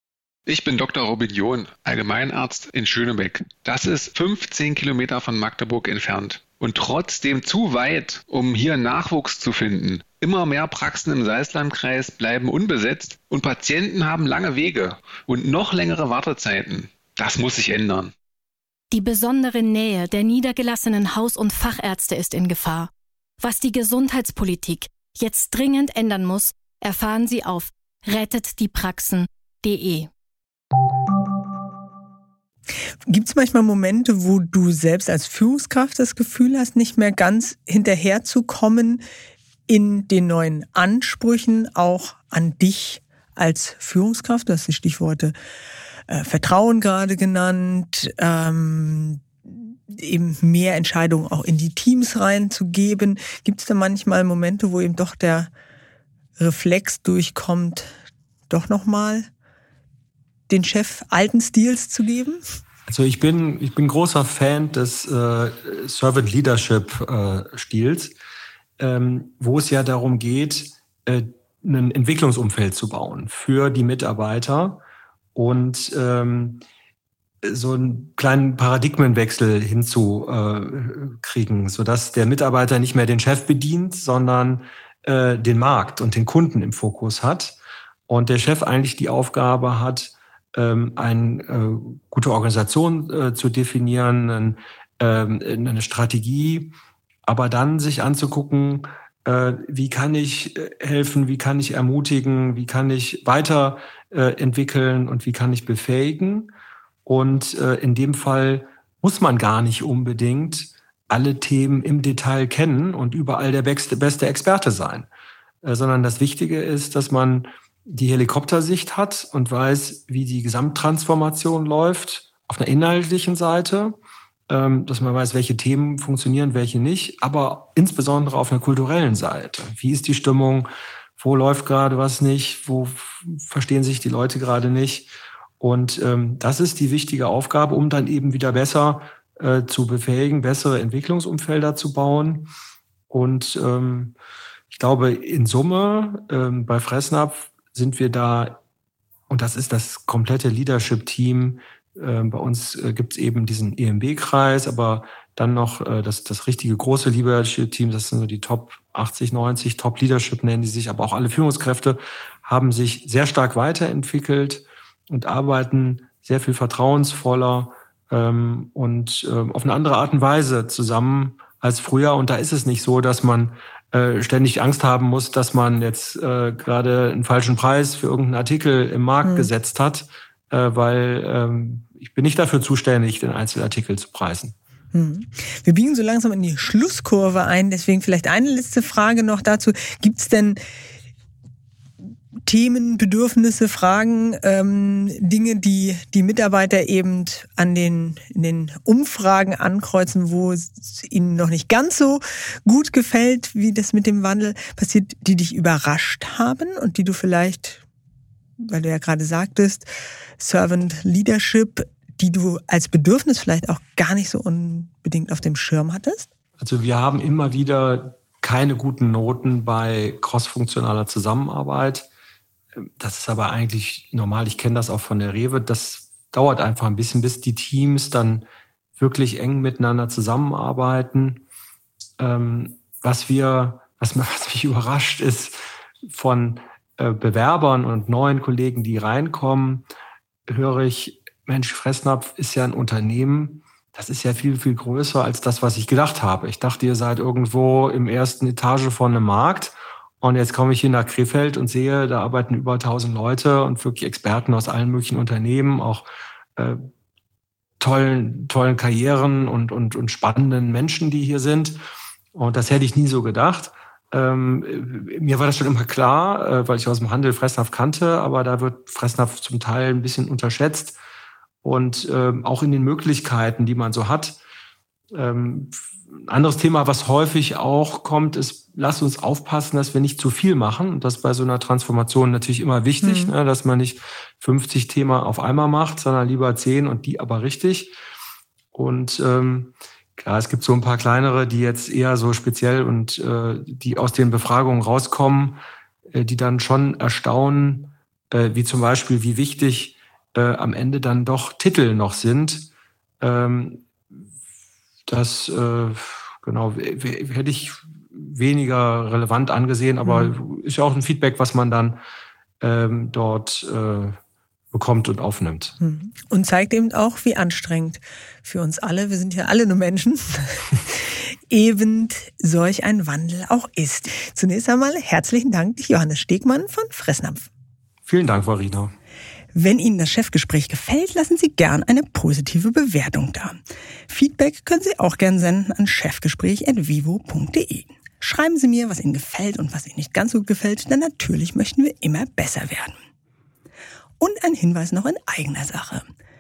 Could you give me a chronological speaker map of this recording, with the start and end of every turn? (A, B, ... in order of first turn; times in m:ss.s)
0:00.5-0:18.1 A
0:18.9-0:30.1 B
0:33.1-0:39.0 C
0:39.7-0:45.4 C
0:46.1-0:55.5 C
0:56.4-0:57.9 C
0:58.5-0:59.3 C
1:00.5-1:02.4 C
1:02.9-1:08.2 D
1:08.8-1:14.8 D
1:15.4-1:16.6 D
1:17.4-1:27.6 D
1:28.1-1:36.7 D
1:37.3-1:46.5 D
1:47.1-1:55.1 D
1:55.6-2:04.0 D
2:04.5-2:22.5 D
2:23.1-2:24.2 D
2:24.7-2:28.6 D
2:29.3-3:04.6 D
2:59.2-2:59.5 C
3:04.9-3:10.6 C
3:12.4-3:27.8 C
3:28.6-3:36.3 C
3:36.6-3:42.1 D
3:42.8-3:48.4 D
3:49.0-3:51.4 D
3:52.2-3:59.8 D
4:00.5-4:16.8 D
4:17.8-4:21.8 D
4:22.3-4:31.0 D
4:31.6-4:34.4 D
4:35.1-4:48.0 D
4:43.0-4:43.3 C
4:48.7-4:55.6 D
4:56.1-5:02.7 D
5:03.2-5:03.8 D
5:05.1-5:12.0 D
5:10.0-5:10.3 C
5:12.6-5:14.2 D
5:14.7-5:15.8 D
5:15.8-5:27.5 C
5:28.1-5:28.9 D
5:29.5-5:43.0 C
5:44.2-5:46.1 C